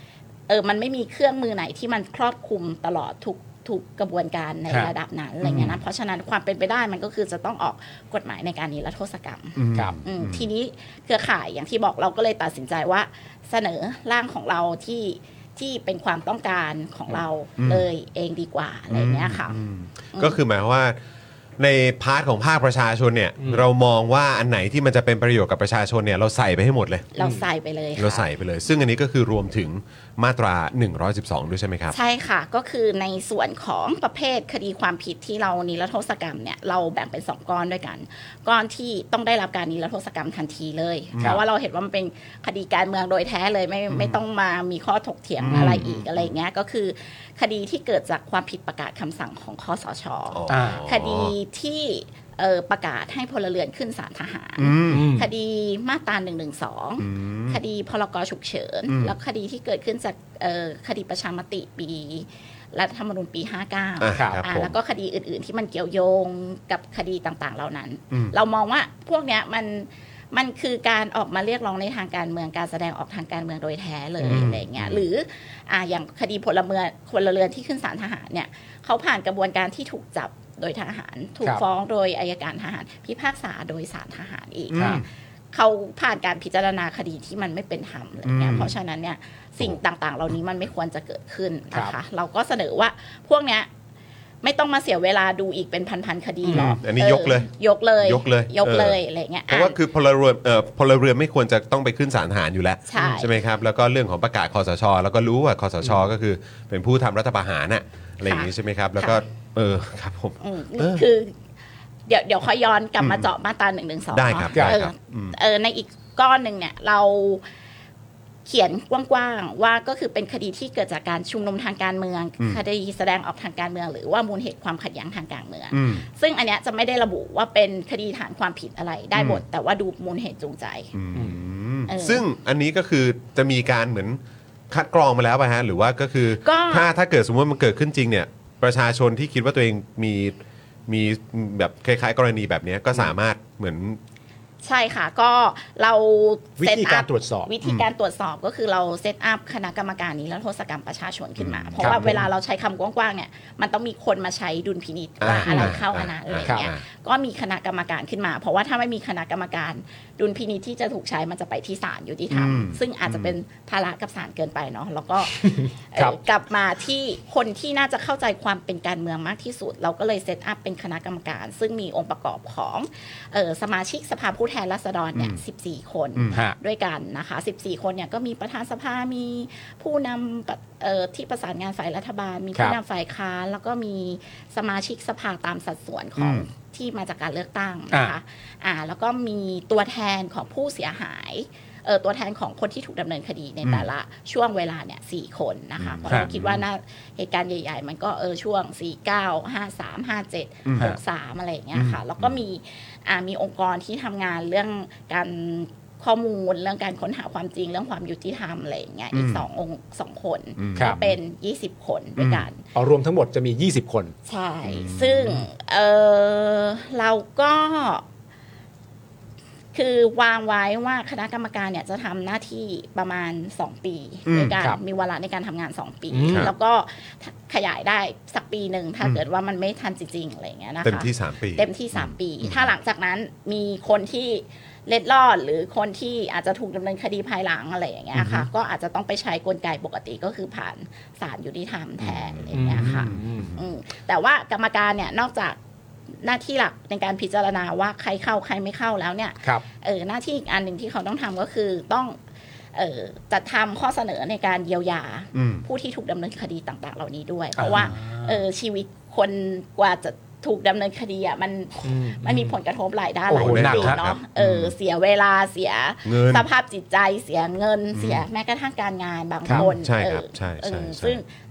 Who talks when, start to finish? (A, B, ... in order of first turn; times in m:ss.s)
0:00.5-0:19.6 A
0:05.4-0:05.8 B
0:09.6-0:10.5 C
0:17.6-0:17.9 C
0:18.9-0:21.0 C
0:21.6-0:27.1 C
0:23.4-0:23.6 B
0:27.2-0:28.3 A
0:27.2-0:27.5 B
0:28.0-0:32.0 C
0:31.9-1:33.7 A
0:41.1-0:41.4 C
0:45.4-0:46.3 C
0:45.5-0:45.8 B
0:50.3-0:51.4 C
0:50.5-0:50.8 B
0:54.6-0:55.1 C
0:54.8-0:55.3 B
0:57.0-0:57.6 C
0:58.9-0:59.2 C
1:04.0-1:04.8 C
1:04.1-1:04.4 B
1:14.2-1:14.6 B
1:14.3-1:15.0 C
1:24.7-1:25.0 C
1:24.8-1:25.0 B
1:28.3-1:28.7 C
1:34.4-1:39.8 A
1:36.5-1:36.8 B
1:36.5-1:37.5 C
1:38.0-1:39.0 C
1:39.5-1:51.0 C
1:42.9-1:43.3 A
1:48.2-1:49.2 A
1:50.4-1:51.3 A
1:52.1-1:57.4 A
1:53.0-1:53.3 C
1:54.1-1:55.4 C
1:54.5-1:54.8 B
1:58.5-2:10.9 A
2:05.7-2:06.0 C
2:09.2-2:09.4 C
2:11.0-2:24.0 C
2:11.9-2:12.2 A
2:16.4-2:16.9 A
2:24.6-3:32.6 A
2:26.6-2:27.5 B
2:31.4-2:32.0 C
2:31.8-2:32.2 B
2:35.2-2:36.8 C
2:35.5-2:35.8 B
2:36.4-2:36.7 B
2:42.3-2:43.4 C
2:45.3-2:46.2 B
2:56.3-2:56.6 B
3:06.2-3:06.5 C
3:15.8-3:16.6 C
3:16.1-3:16.3 B
3:20.7-3:21.0 C
3:21.8-3:22.2 C
3:29.1-3:29.5 C
3:30.6-3:31.2 C
3:32.2-3:32.4 C
3:32.7-3:34.1 B
3:34.3-3:38.0 A
3:34.6-3:35.4 C
3:39.7-4:05.6 A
3:44.3-3:44.6 C
3:44.5-3:44.8 B
3:46.1-3:46.5 B
3:50.8-3:52.7 C
3:58.2-3:58.4 C
4:02.0-4:03.5 C
4:02.5-4:03.6 B
4:06.2-4:12.2 A
4:12.7-4:31.3 A
4:15.3-4:15.7 C
4:17.6-4:18.4 B
4:21.8-4:22.6 B
4:23.3-4:24.0 B
4:23.3-4:24.8 C
4:26.0-4:26.5 C
4:27.9-4:28.2 C
4:29.5-4:31.2 C